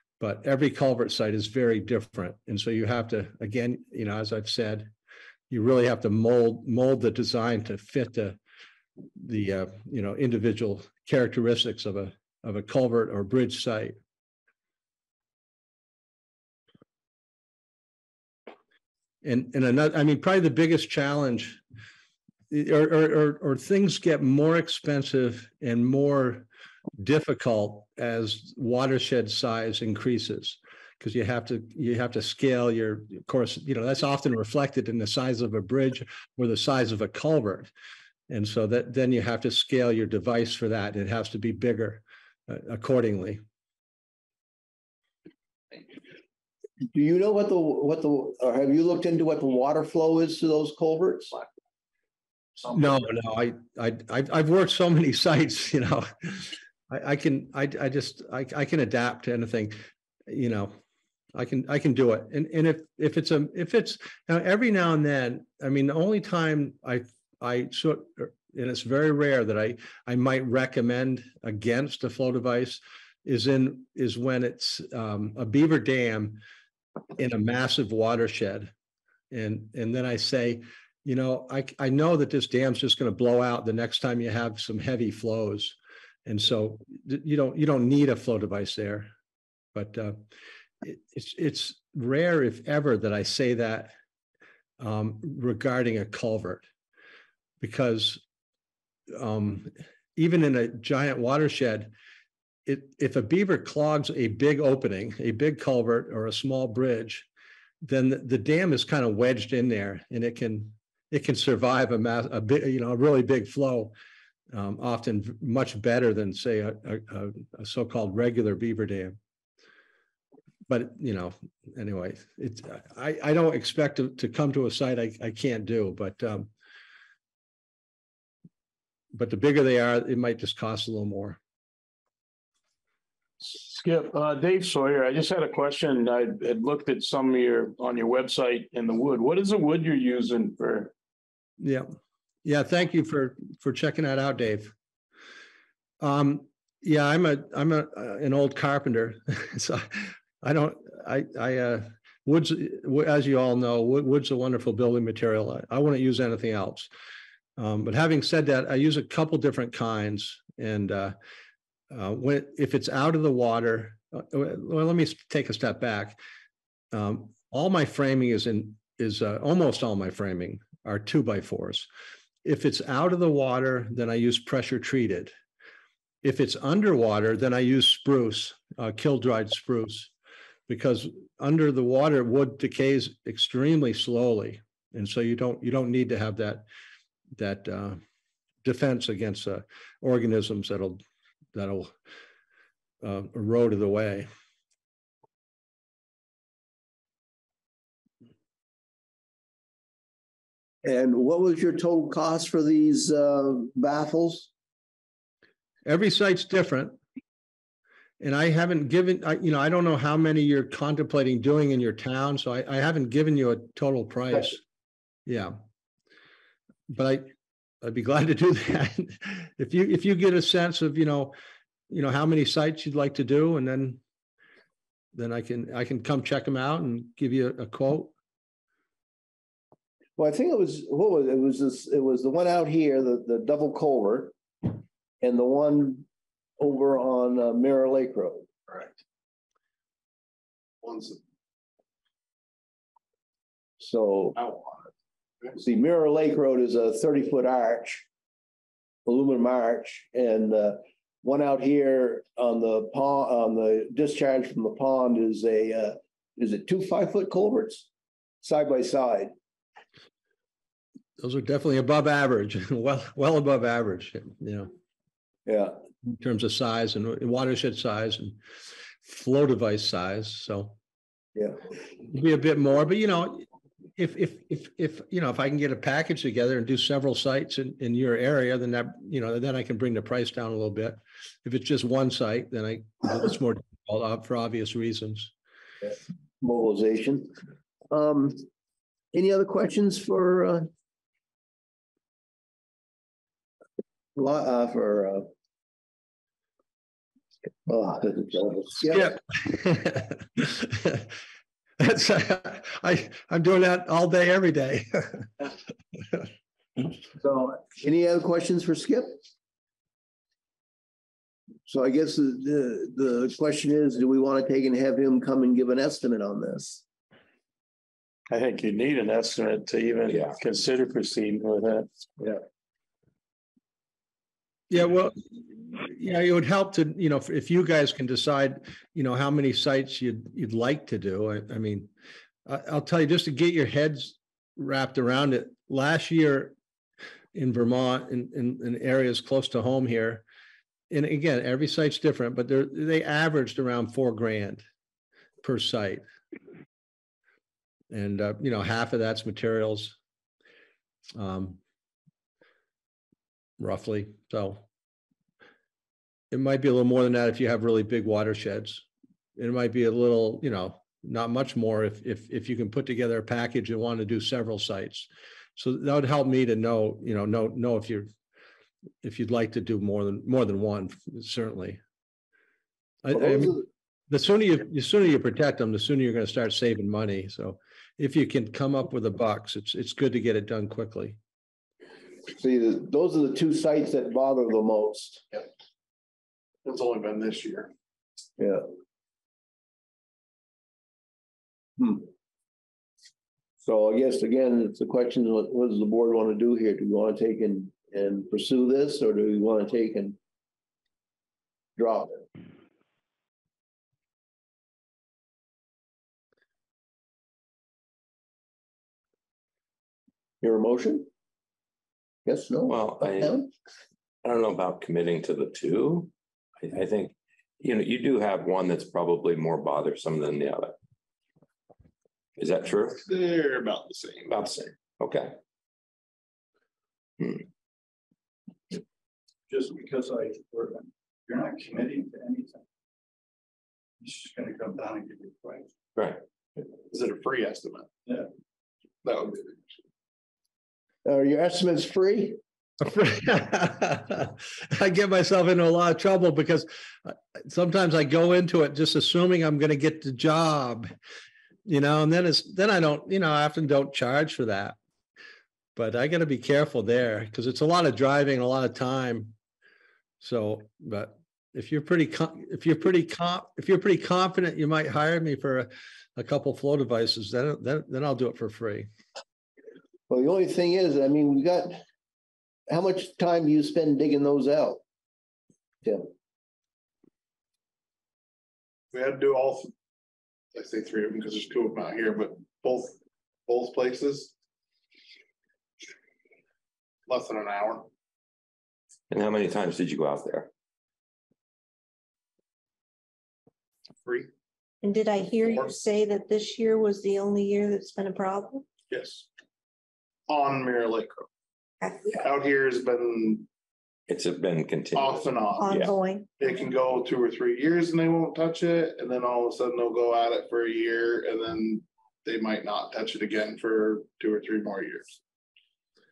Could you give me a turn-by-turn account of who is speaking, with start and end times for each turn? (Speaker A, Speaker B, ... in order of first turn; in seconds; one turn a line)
Speaker A: 0.2-4.9
Speaker A: 5.5-8.4
Speaker A: 9.2-13.9
Speaker A: 19.2-21.6
Speaker A: 22.5-37.7
Speaker A: 38.3-43.4
Speaker B: 46.9-51.3
Speaker A: 52.7-59.8
Speaker A: 60.3-60.8
Speaker A: 61.3-76.4
Speaker A: 77.2-78.7
Speaker A: 79.3-89.1
Speaker A: 89.7-90.2
Speaker A: 90.8-93.9
Speaker A: 94.8-96.6
Speaker A: 97.6-98.2
Speaker A: 99.1-101.9
Speaker A: 102.7-107.3
Speaker A: 107.8-113.9
Speaker A: 114.5-119.2
Speaker A: 120.7-126.5
Speaker A: 129.1-131.4
Speaker C: 133.4-140.9
Speaker A: 141.6-141.9
Speaker A: 142.4-144.7
Speaker A: 146.0-156.9
Speaker A: 157.6-161.1
Speaker A: 161.9-166.2
Speaker A: 166.9-171.9
Speaker A: 172.4-175.3
Speaker A: 176.2-180.1
Speaker A: 180.7-186.6
Speaker A: 187.4-188.0
Speaker A: 188.6-191.0
Speaker A: 191.5-191.9
Speaker A: 193.0-194.3
Speaker B: 200.8-204.5
Speaker A: 205.8-206.9
Speaker A: 208.2-214.6
Speaker A: 215.3-215.6
Speaker A: 216.9-217.3
Speaker A: 217.8-221.3
Speaker A: 221.9-224.0
Speaker A: 225.1-228.1
Speaker B: 230.2-236.1
Speaker B: 236.6-238.5
Speaker D: 240.8-241.2
Speaker B: 243.8-244.4
Speaker D: 244.4-244.9
Speaker B: 245.6-248.1
Speaker B: 249.1-257.9
Speaker B: 258.4-259.3
Speaker A: 261.2-264.7
Speaker B: 265.4-265.8
Speaker A: 266.1-268.4
Speaker A: 269.0-270.8
Speaker A: 272.1-285.3
Speaker B: 285.8-287.3
Speaker B: 287.9-288.4
Speaker B: 289.1-290.7
Speaker B: 294.1-295.3
Speaker B: 297.6-299.1
Speaker A: 298.9-301.1
Speaker A: 301.8-305.3
Speaker B: 307.1-309.2
Speaker B: 311.6-316.8
Speaker C: 318.3-321.9
Speaker E: 320.1-320.4
Speaker A: 324.7-325.2
Speaker A: 325.7-331.9
Speaker A: 332.4-336.5
Speaker A: 337.3-340.2
Speaker A: 340.9-344.6
Speaker A: 345.4-346.0
Speaker A: 347.9-349.9
Speaker A: 351.1-351.6
Speaker A: 353.6-354.6
Speaker A: 356.3-358.8
Speaker A: 359.4-368.1
Speaker A: 369.0-371.8
Speaker A: 373.0-381.2
Speaker B: 373.1-373.6
Speaker B: 382.4-385.2
Speaker D: 386.6-387.7
Speaker B: 388.4-388.6
Speaker B: 391.8-392.1
Speaker B: 393.6-400.2
Speaker B: 401.8-402.2
Speaker B: 410.4-411.1
Speaker B: 412.2-413.5
Speaker E: 412.7-413.4
Speaker E: 414.2-420.8
Speaker E: 422.4-423.0
Speaker D: 423.0-424.6
Speaker E: 424.3-425.4
Speaker F: 429.5-432.6
Speaker F: 434.0-435.6
Speaker E: 435.9-436.2
Speaker D: 436.9-437.9
Speaker D: 439.0-439.5
Speaker B: 441.0-442.4
Speaker A: 442.8-450.9
Speaker A: 451.6-454.8
Speaker A: 455.8-459.3
Speaker A: 460.2-468.9
Speaker B: 470.1-471.8
Speaker B: 472.7-474.8
Speaker B: 475.8-476.1
Speaker D: 478.9-479.7
Speaker D: 480.5-484.3
Speaker D: 487.1-487.9
Speaker E: 489.1-490.5
Speaker G: 494.8-498.7
Speaker D: 498.9-499.2
Speaker D: 500.3-501.2
Speaker G: 501.8-502.2
Speaker D: 502.1-503.5
Speaker E: 504.1-505.9
Speaker D: 504.9-505.8
Speaker G: 505.6-506.3
Speaker D: 506.4-515.2